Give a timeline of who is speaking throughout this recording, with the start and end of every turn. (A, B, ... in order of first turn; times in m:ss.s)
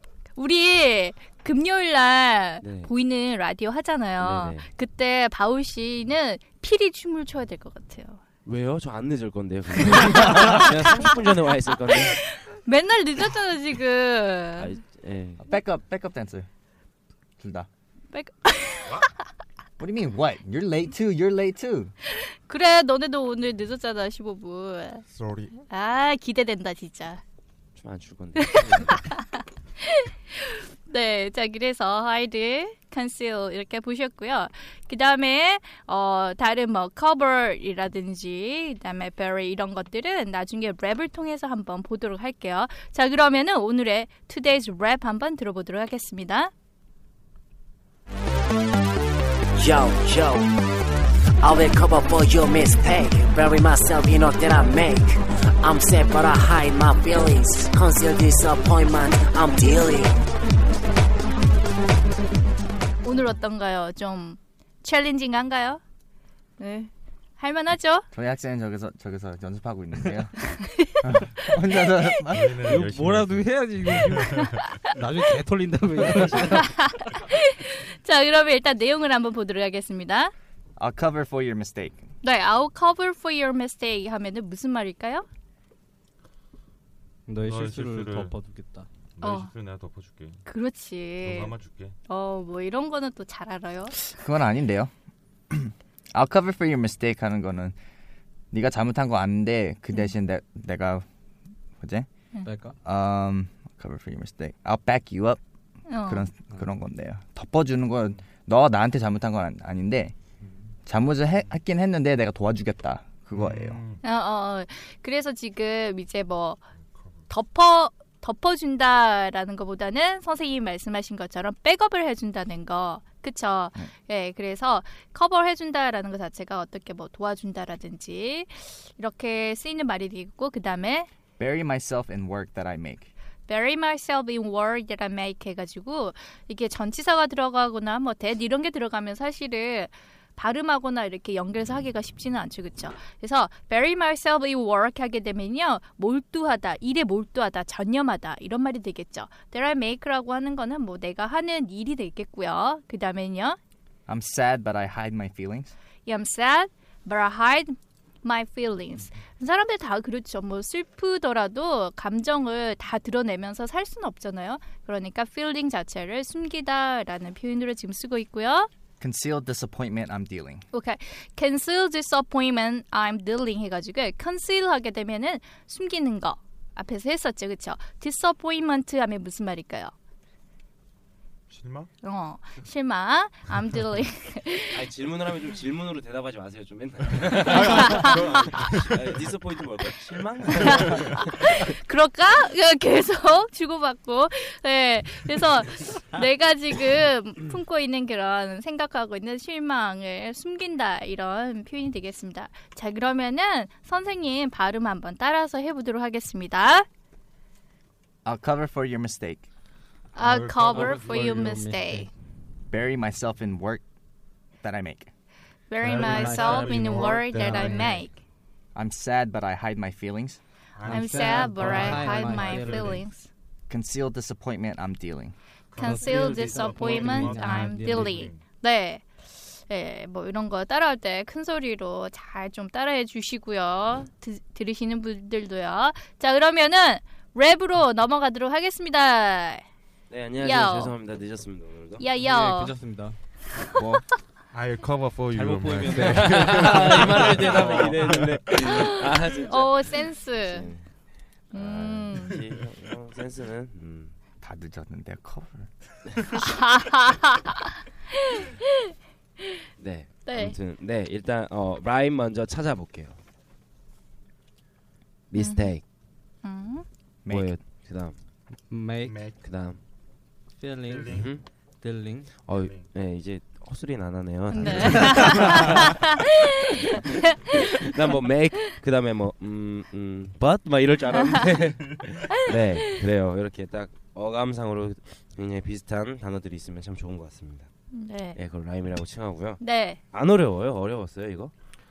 0:00.4-0:08.2 A
0:02.6-0:02.9 B
0:04.2-0:04.7 B
0:08.4-0:12.2 B
0:10.2-0:10.6 A
0:11.9-0:14.7 A
0:14.6-0:15.4 B
0:15.4-0:16.5 C
0:17.4-0:17.7 C
0:18.1-0:19.1 A
0:19.8-0:21.9 C
0:22.1-0:25.0 A
0:25.1-0:25.6 D
0:25.7-0:27.2 A
0:27.8-0:29.1 B
0:28.4-0:46.5 A
0:49.6-0:50.5 E
0:51.4-1:00.2 E
1:03.0-1:05.8 A
1:06.6-1:08.1 A
1:08.1-1:12.8 C
1:10.4-1:11.5 A
1:12.3-1:14.6 D
1:12.6-1:16.7 F
1:16.5-1:20.3 A
1:20.8-1:22.0 C
1:22.2-1:25.2 A
1:27.3-1:28.9 F
1:27.4-1:28.4 D
1:29.2-1:30.4 D
1:29.2-1:29.5 A
1:30.4-1:31.5 A
1:31.2-1:31.9 D
1:32.1-1:34.0 A
1:34.1-1:34.9 C
1:35.5-1:37.7 C
1:38.5-1:41.0 C
1:41.8-1:42.1 C
1:42.4-1:42.7 F
1:42.8-1:45.4 C
1:45.9-1:46.3 A
1:46.0-1:50.1 C
1:50.8-1:53.8 C
1:53.3-1:54.0 D
1:54.0-1:56.6 A
1:56.8-1:57.2 D
1:57.3-2:11.1 A
2:11.4-2:13.1 C
2:13.5-2:33.6 A
2:34.1-2:35.7 C
2:36.0-2:48.7 A
2:49.0-2:50.6 C
2:50.7-2:59.9 A
3:01.5-3:01.9 D
3:02.0-3:04.8 A
3:04.7-3:11.3 B
3:07.5-3:09.1 D
3:07.5-3:08.2 A
3:10.6-3:26.8 A
3:28.2-3:29.4 C
3:30.1-3:31.3 D
3:30.1-3:32.1 A
3:30.7-3:32.1 F
3:32.7-3:33.8 C
3:34.6-3:35.1 C
3:35.7-3:38.1 A
3:35.8-3:38.0 D
3:35.8-3:38.0 F
3:38.7-3:40.4 C
3:40.7-3:43.0 D
3:40.8-3:43.0 F
3:40.8-3:43.3 A
3:43.7-3:45.3 C
3:45.7-3:48.4 D
3:45.8-3:59.6 A
3:45.8-3:48.3 F
4:00.1-4:02.0 B
4:00.4-4:00.9 A
4:02.0-4:02.8 A
4:02.2-4:03.2 F
4:03.7-4:04.0 C
4:04.5-4:08.4 D
4:05.3-4:08.0 F
4:06.0-4:10.9 B
4:08.8-4:10.7 A
4:11.5-4:14.1 B
4:11.5-4:12.4 A
4:14.4-4:15.7 C
4:16.4-4:17.7 A
4:18.3-4:18.6 A
4:19.8-4:23.2 B
4:20.2-4:20.6 A
4:25.3-4:25.8 B
4:25.4-4:25.7 A
4:26.4-4:26.8 A
4:27.2-4:27.6 C
4:27.3-4:28.2 B
4:28.7-4:29.2 F
4:29.0-4:29.4 D
4:29.4-4:29.8 B
4:30.6-4:32.4 F
4:30.8-4:31.3 D
4:31.1-4:31.4 B
4:32.4-4:35.9 B
4:32.5-4:32.9 D
4:34.5-4:37.0 A
4:34.7-4:35.6 F
4:37.7-4:47.7 B
4:47.9-4:48.4 A
4:48.3-4:51.5 B
4:49.6-4:50.0 A